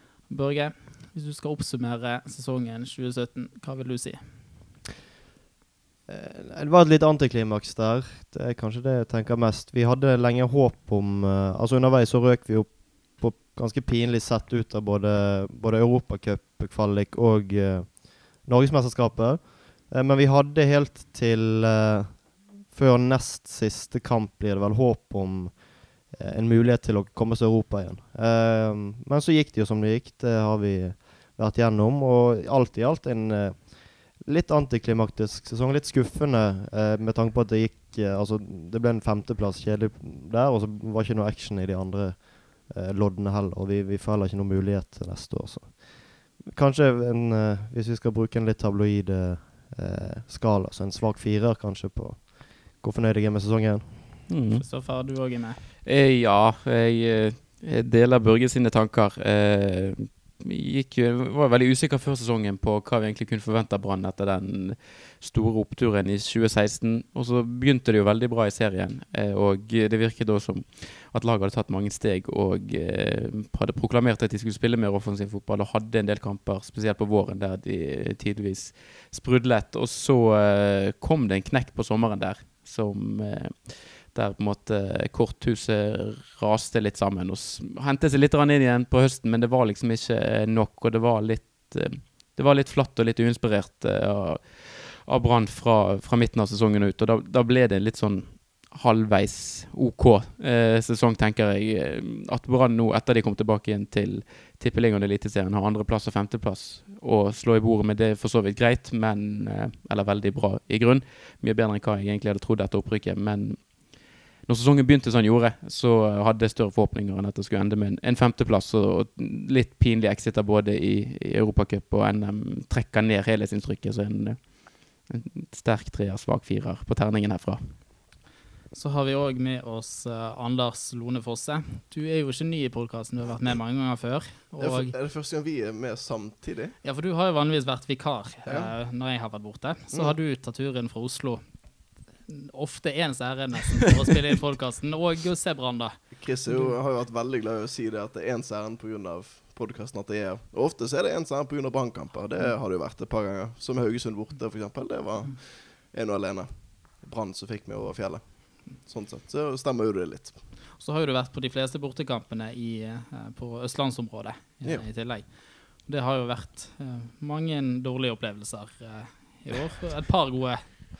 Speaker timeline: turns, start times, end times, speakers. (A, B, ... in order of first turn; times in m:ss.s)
0:00.3-0:04.4 A
0:06.1-0:54.3 B
0:54.3-0:54.7 C
0:54.6-0:55.6 A
0:55.8-2:07.8 C
2:08.7-2:14.9 A
2:14.6-2:16.8 D
2:16.8-2:26.7 A
2:18.4-2:18.7 D
2:19.9-2:20.2 D
2:26.1-2:40.4 D
2:40.8-2:50.6 A